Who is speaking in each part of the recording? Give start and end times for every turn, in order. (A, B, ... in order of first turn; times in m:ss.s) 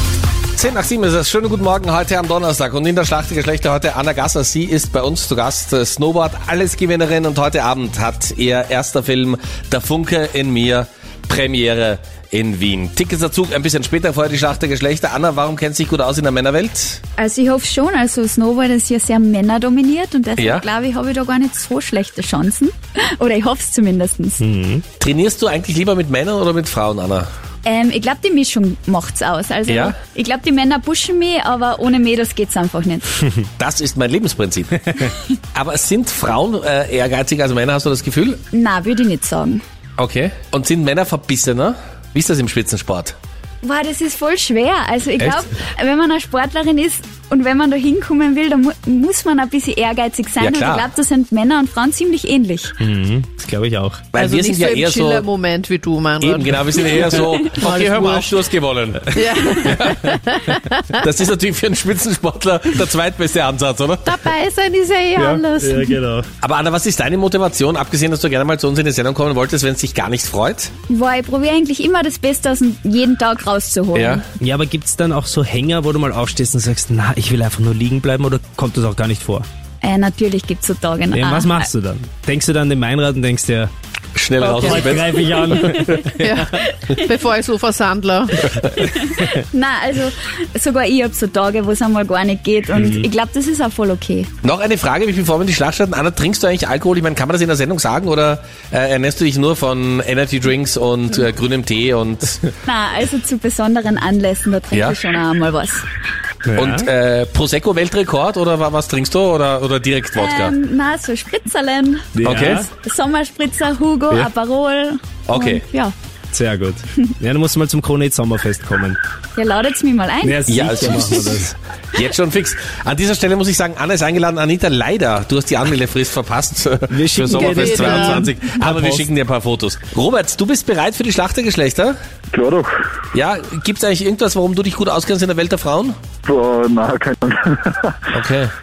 0:00.6-0:17.0 A
0:17.2-0:24.4 B
0:20.4-0:20.7 A
0:24.4-0:24.8 C
0:25.0-0:27.3 A
0:27.6-0:33.3 B
0:29.7-0:30.0 A
0:33.6-0:34.9 A
0:35.6-0:38.4 A
0:38.5-0:39.6 B
0:40.0-0:43.2 A
0:43.6-0:52.8 B
0:50.4-0:50.9 A
0:52.8-0:54.0 C
0:54.1-0:55.3 A
0:54.2-0:58.4 D
0:56.2-1:00.0 A
0:59.1-1:00.9 D
1:01.0-1:04.1 A
1:04.0-1:06.0 D
1:05.2-1:06.3 C
1:06.4-1:10.7 A
1:10.9-1:14.2 B
1:13.9-1:14.2 A
1:14.4-1:19.5 C
1:19.8-1:21.7 B
1:21.1-1:23.7 C
1:24.2-1:25.5 A
1:24.4-1:26.4 C
1:25.6-1:27.0 B
1:26.2-1:28.5 D
1:28.8-1:34.3 B
1:32.8-1:33.1 C
1:34.4-1:42.5 A
1:42.7-1:45.9 B
1:44.7-1:45.0 A
1:46.4-1:46.9 C
1:46.6-1:50.6 A
1:50.2-1:55.9 B
1:52.2-1:52.7 C
1:52.2-1:52.7 A
1:55.3-1:55.6 A
1:56.3-1:59.0 C
1:59.4-2:00.5 B
2:00.2-2:01.6 C
2:00.4-2:12.0 A
2:06.9-2:09.1 C
2:07.3-2:08.3 D
2:12.3-2:12.7 E
2:13.1-2:16.0 A
2:16.2-2:18.1 E
2:18.1-2:18.5 A